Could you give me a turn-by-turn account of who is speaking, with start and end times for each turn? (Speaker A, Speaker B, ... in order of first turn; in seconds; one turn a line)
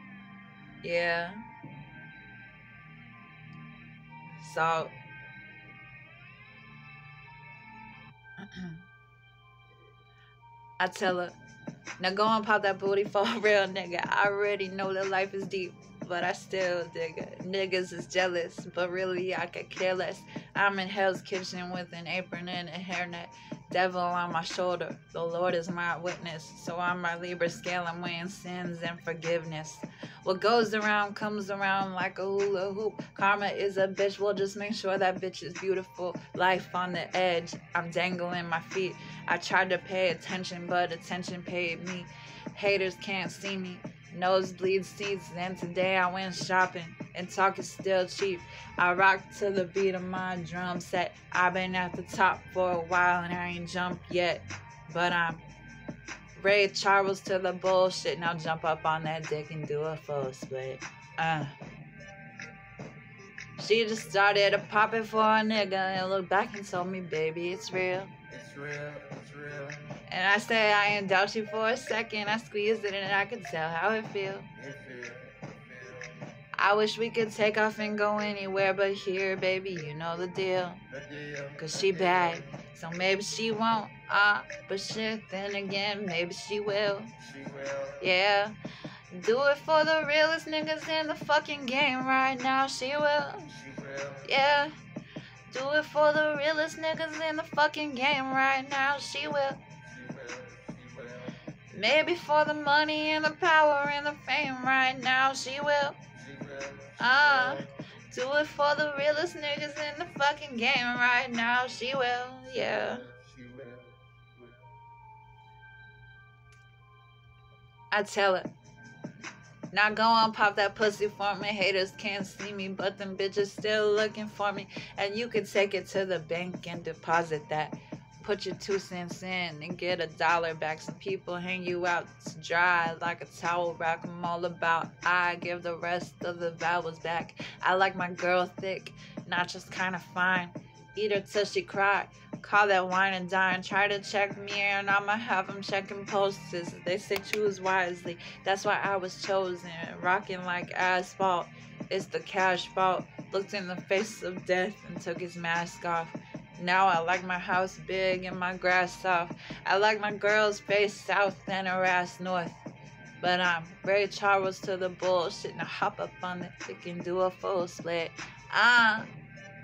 Speaker A: 0.8-1.4
Speaker A: 4.3-4.9
Speaker A: 8.4-8.8
Speaker A: 10.8-11.3
Speaker A: 12.0-55.4
Speaker A: 56.3-61.5
Speaker A: 63.6-68.1
Speaker B: 68.3-69.9
Speaker A: 70.0-74.5
Speaker B: 74.7-76.0
Speaker A: 76.5-80.8
Speaker A: 81.5-87.1
Speaker B: 87.4-87.9
Speaker A: 88.0-88.5
Speaker A: 89.1-93.6
Speaker B: 93.7-94.2
Speaker A: 94.2-94.7
Speaker A: 95.5-99.6
Speaker B: 100.0-101.3
Speaker A: 101.7-106.0
Speaker B: 106.3-107.0
Speaker A: 107.0-113.2
Speaker B: 113.2-114.0
Speaker A: 117.9-118.5
Speaker A: 119.7-162.6
Speaker A: 163.2-169.1